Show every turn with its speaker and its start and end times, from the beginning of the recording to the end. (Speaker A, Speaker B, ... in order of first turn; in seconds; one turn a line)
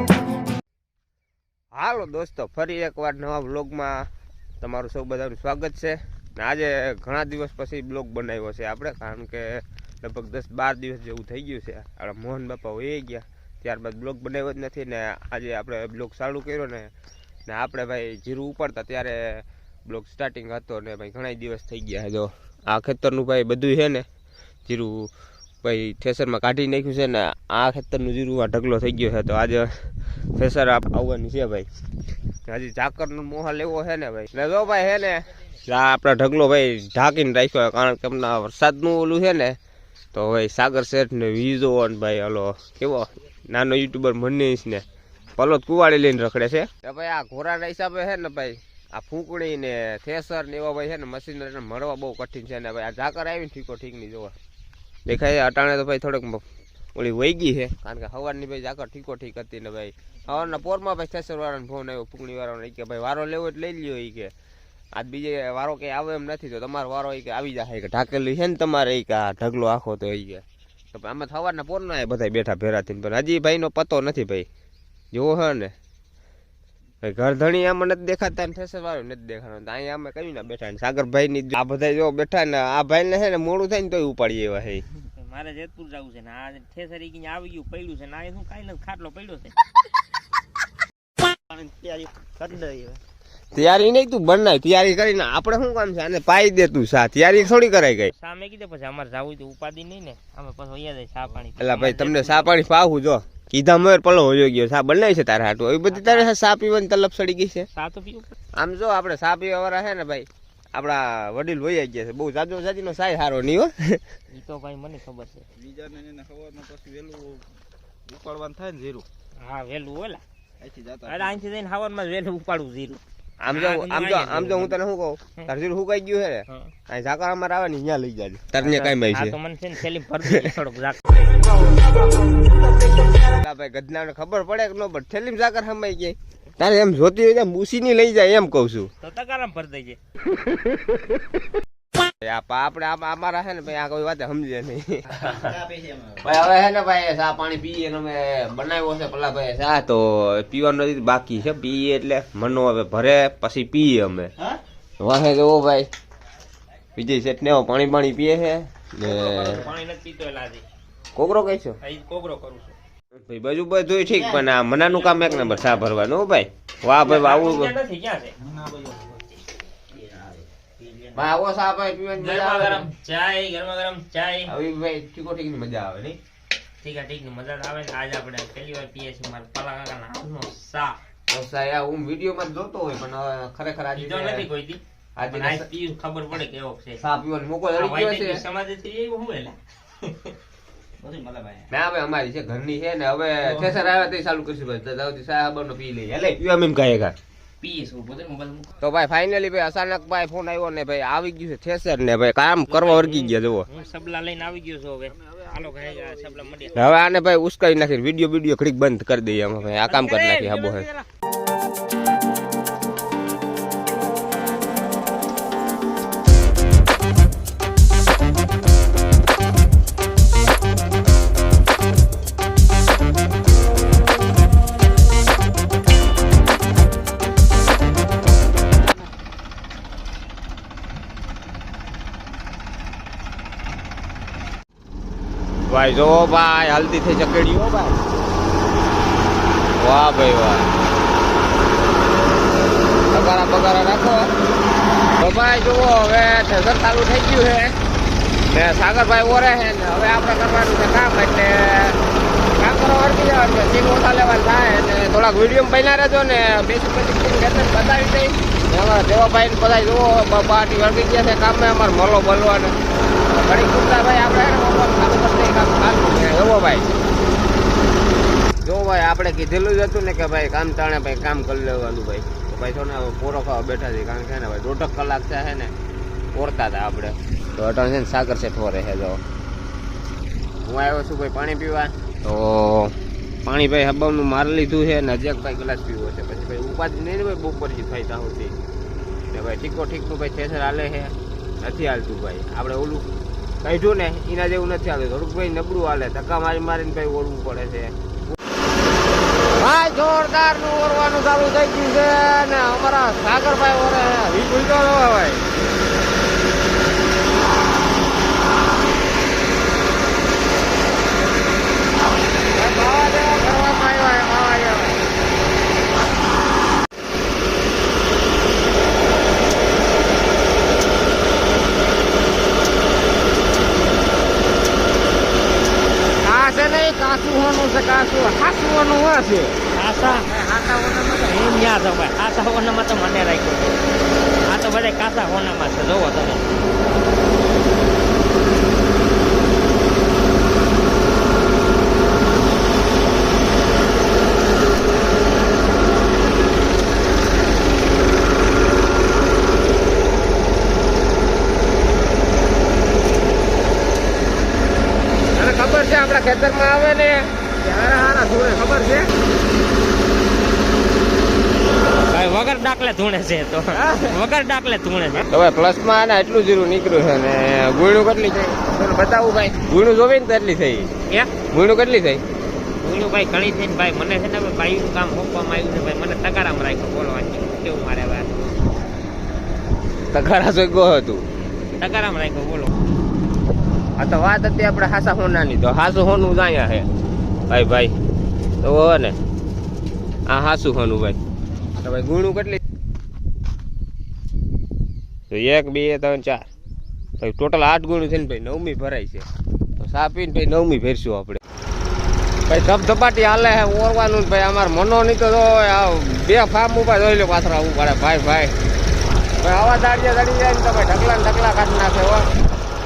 Speaker A: 1.7-4.1
Speaker A: 4.6-16.9
Speaker A: 17.5-24.1
Speaker A: 24.7-25.1
Speaker A: 25.6-31.7
Speaker A: 32.5-39.6
Speaker A: 40.1-44.9
Speaker A: 45.4-54.3
Speaker A: 55.1-56.4
Speaker A: 57.0-64.3
Speaker A: 65.0-74.5
Speaker A: 75.1-75.7
Speaker A: 77.0-84.8
Speaker B: 85.1-89.6
Speaker C: 91.5-93.0
Speaker A: 93.5-98.1
Speaker B: 98.1-102.5
Speaker A: 101.6-107.7
Speaker B: 105.9-106.3
Speaker B: 107.7-108.3
Speaker A: 108.5-114.0
Speaker B: 114.3-115.5
Speaker C: 115.5-117.5
Speaker C: 118.1-119.0
Speaker B: 119.4-120.2
Speaker C: 120.6-121.3
Speaker B: 121.0-124.7
Speaker A: 123.4-129.4
Speaker B: 126.5-126.7
Speaker B: 128.6-131.2
Speaker A: 130.2-130.5
Speaker A: 133.2-138.9
Speaker B: 139.0-140.0
Speaker A: 142.2-145.6
Speaker C: 145.3-146.2
Speaker A: 146.2-154.3
Speaker A: 155.0-155.9
Speaker A: 156.9-159.7
Speaker B: 159.0-160.6
Speaker A: 161.1-161.8
Speaker B: 161.8-162.8
Speaker A: 163.3-167.8
Speaker B: 164.7-165.8
Speaker B: 167.0-169.0
Speaker C: 168.6-169.1
Speaker C: 169.9-171.1
Speaker A: 171.1-172.9
Speaker B: 172.1-174.5
Speaker A: 174.4-176.2
Speaker B: 176.8-181.0
Speaker A: 181.3-184.5
Speaker B: 183.9-187.0
Speaker A: 185.2-185.7
Speaker A: 187.0-188.4
Speaker B: 187.7-190.3
Speaker B: 191.0-191.6
Speaker C: 191.1-191.7
Speaker A: 191.7-197.1
Speaker B: 197.6-198.7
Speaker A: 198.8-203.7
Speaker B: 202.7-206.9
Speaker C: 206.0-206.3
Speaker A: 206.7-210.9
Speaker B: 209.9-211.1
Speaker A: 235.7-238.0
Speaker A: 239.8-240.7
Speaker A: 243.1-244.3
Speaker A: 245.2-247.8
Speaker A: 248.5-252.0
Speaker A: 252.6-266.9
Speaker A: 268.6-275.7
Speaker A: 276.3-279.2
Speaker A: 280.6-288.6
Speaker A: 289.3-293.1
Speaker A: 293.6-297.9
Speaker A: 299.6-305.4
Speaker A: 312.5-315.0
Speaker A: 326.2-329.6
Speaker B: 329.7-330.3
Speaker A: 330.2-331.4
Speaker B: 331.1-333.8
Speaker B: 334.4-336.5
Speaker A: 355.3-359.1
Speaker B: 362.1-365.3
Speaker A: 363.7-364.2
Speaker A: 365.3-372.2
Speaker B: 371.1-371.3
Speaker B: 372.8-378.4
Speaker A: 380.1-381.2
Speaker B: 381.8-382.7
Speaker A: 384.0-386.9
Speaker A: 387.5-387.9
Speaker A: 388.6-389.2
Speaker A: 390.3-391.2
Speaker A: 391.8-392.6
Speaker A: 395.3-396.4
Speaker A: 397.2-401.4
Speaker A: 402.5-408.5
Speaker A: 409.4-412.3